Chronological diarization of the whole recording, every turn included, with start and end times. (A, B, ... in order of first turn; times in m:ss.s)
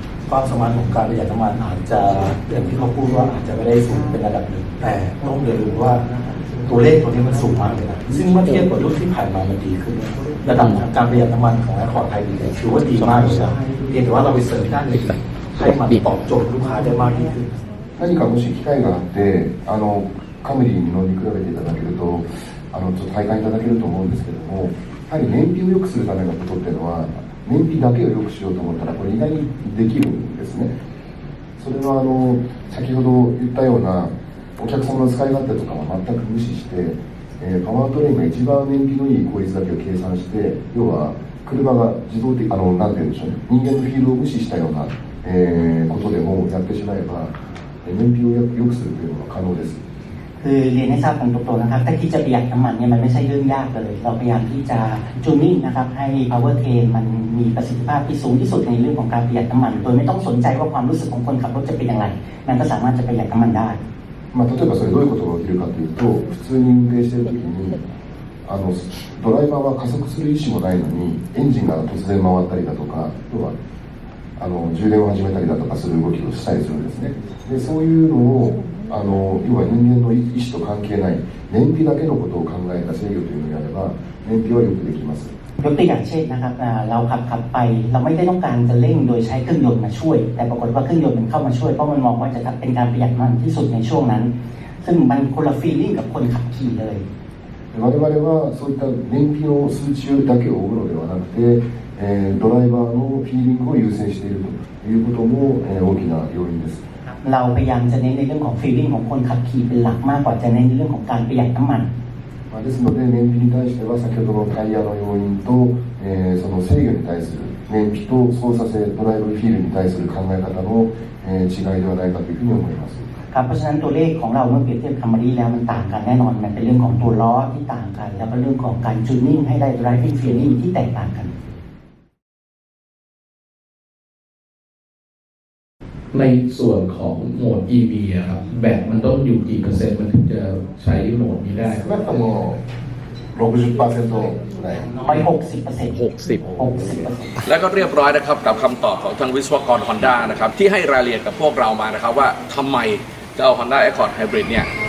0:00.3-0:06.0 A
0:06.6-0:17.5 A
0:10.6-0:10.8 B
0:18.0-0:30.7 C
0:31.6-0:49.8 C
0:50.4-1:03.8 D
1:04.3-1:07.8 C
1:08.4-1:13.5 C
1:14.4-1:25.3 C
1:25.6-1:37.0 D
1:37.7-1:46.8 C
1:47.2-1:51.9 D
1:52.5-2:03.1 C
2:03.3-2:11.3 D
2:16.1-2:22.0 B
2:21.6-2:22.6 E
2:23.3-2:25.0 E
2:25.0-2:27.4 D
2:25.9-2:26.4 B
2:27.4-2:34.7 F